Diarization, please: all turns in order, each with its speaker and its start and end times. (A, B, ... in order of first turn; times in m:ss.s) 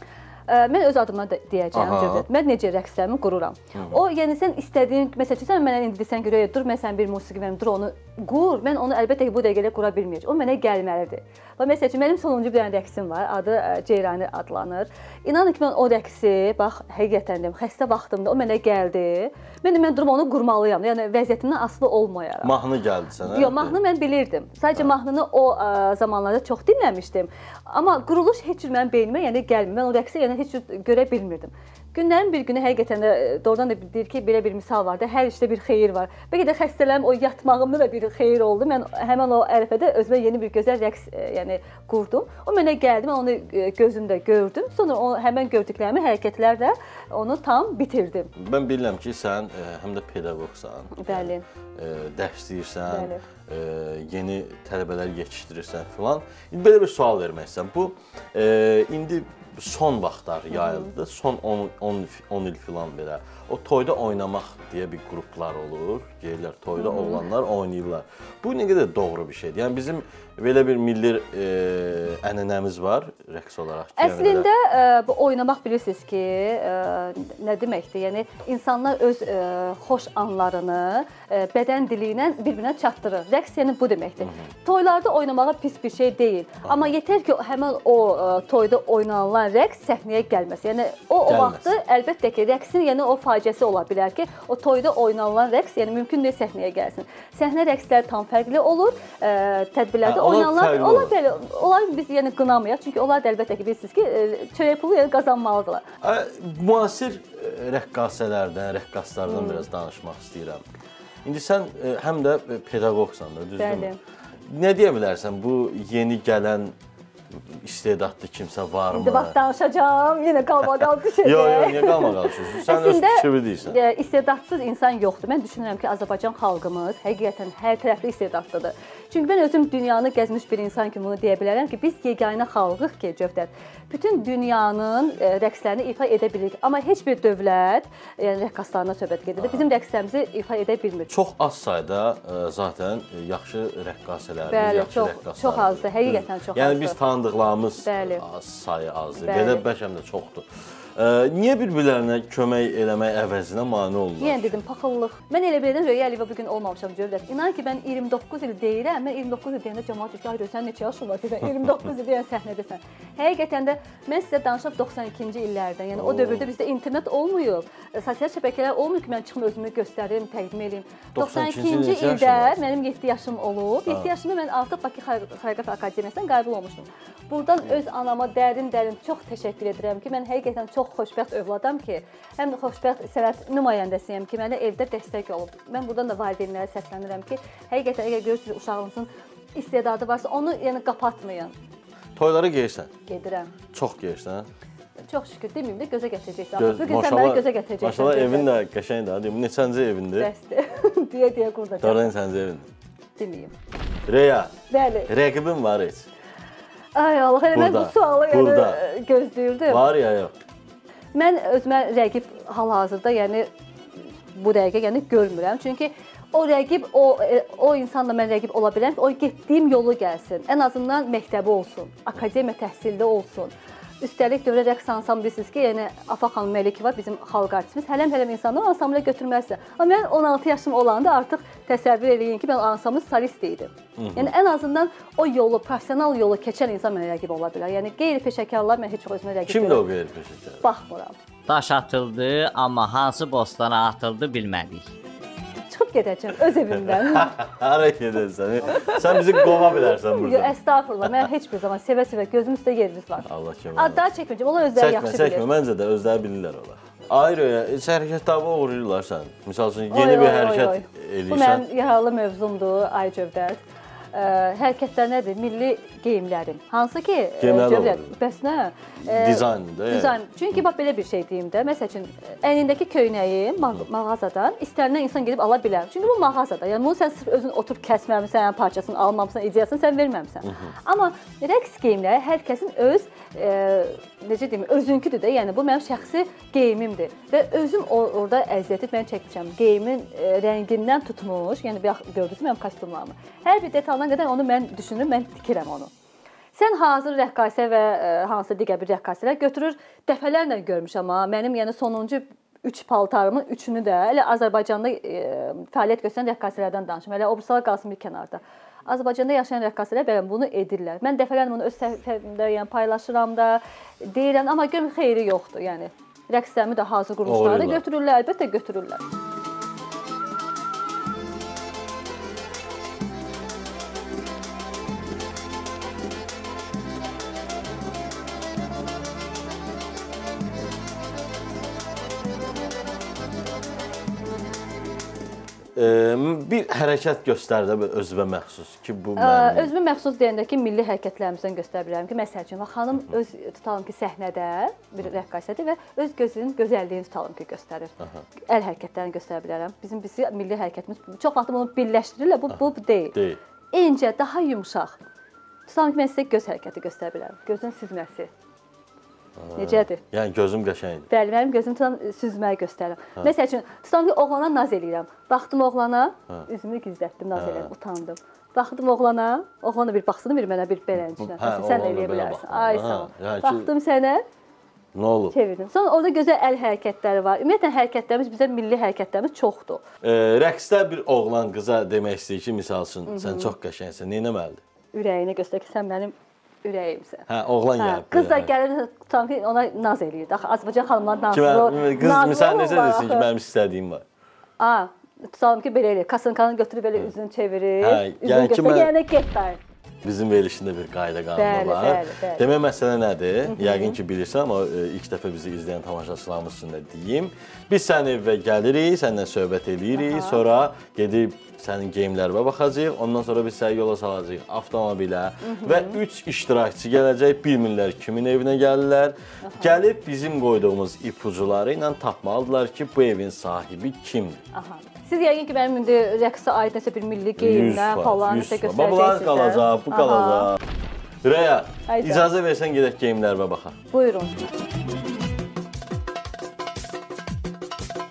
0:00.5-0:22.5 A
0:01.7-0:02.2 B
0:03.7-0:04.0 B
0:22.4-0:23.8 B
0:23.2-0:48.3 A
0:48.4-1:14.5 B
0:51.0-0:51.4 A
0:52.9-0:53.2 A
1:00.5-1:00.9 A
1:06.8-1:07.2 A
1:14.0-1:45.8 A
1:24.2-1:24.5 B
1:26.6-1:26.9 B
1:31.2-1:31.7 B
1:40.0-1:41.2 B
1:46.0-1:50.6 B
1:49.3-1:49.6 A
1:51.2-1:53.9 B
1:53.6-1:54.0 A
1:54.4-1:56.8 B
1:57.3-1:59.4 B
1:58.9-2:21.1 A
2:01.2-2:03.8 B
2:19.4-2:19.7 B
2:21.1-2:34.6 B
2:24.5-2:27.0 A
2:27.8-2:28.2 A
2:29.2-2:29.6 A
2:34.2-3:11.5 A
2:45.9-2:46.5 B
2:51.1-2:52.6 B
3:12.2-3:12.9 B
3:13.0-3:13.5 A
3:13.7-3:14.5 B
3:15.1-3:18.5 A
3:16.6-3:20.3 B
3:20.2-3:22.1 A
3:21.8-3:22.7 B
3:23.2-3:23.5 A
3:24.1-3:24.5 B
3:24.7-3:25.1 A
3:25.1-3:26.1 B
3:26.9-3:29.8 A
3:27.5-3:28.8 B
3:29.7-3:30.3 B
3:31.1-3:33.5 A
3:34.3-3:59.8 A
3:54.0-3:54.3 B
3:59.5-4:00.6 B
4:00.6-4:01.2 A
4:01.5-4:04.8 C
4:05.7-4:07.3 A
4:06.7-4:11.3 B
4:08.7-4:15.5 A
4:13.2-4:14.0 B
4:14.8-4:21.7 B
4:19.9-4:23.6 A
4:24.1-4:55.9 A
4:27.4-4:28.2 B
4:29.0-4:30.2 B
4:33.6-4:33.8 B
4:40.4-4:40.7 B
4:56.6-5:19.0 A
5:17.2-5:17.8 B
5:35.8-5:39.7 B
5:39.2-5:47.9 A
5:48.0-5:48.2 B
5:48.4-5:53.2 A
5:52.5-5:53.4 B
5:53.7-5:55.0 A
5:55.7-5:58.3 A
5:59.4-6:01.1 B
5:59.6-6:00.0 A
6:01.1-6:14.2 A
6:07.3-6:07.7 B
6:11.2-6:13.7 B
6:14.9-6:15.4 B
6:15.3-6:19.8 A
6:20.0-6:24.6 B
6:23.1-6:23.5 A
6:24.9-6:27.2 A
6:27.3-6:28.5 B
6:27.8-6:33.3 A
6:31.3-6:34.0 B
6:34.6-6:39.6 A
6:37.8-6:38.9 B
6:40.0-7:04.4 B
6:41.4-6:42.4 A
6:43.4-6:44.0 A
6:49.9-6:50.4 A
6:55.4-6:56.0 A
6:59.4-6:59.8 A
7:04.5-7:10.5 A
7:07.4-7:10.6 B
7:11.2-7:13.8 B
7:11.9-7:12.2 A
7:13.9-7:14.4 A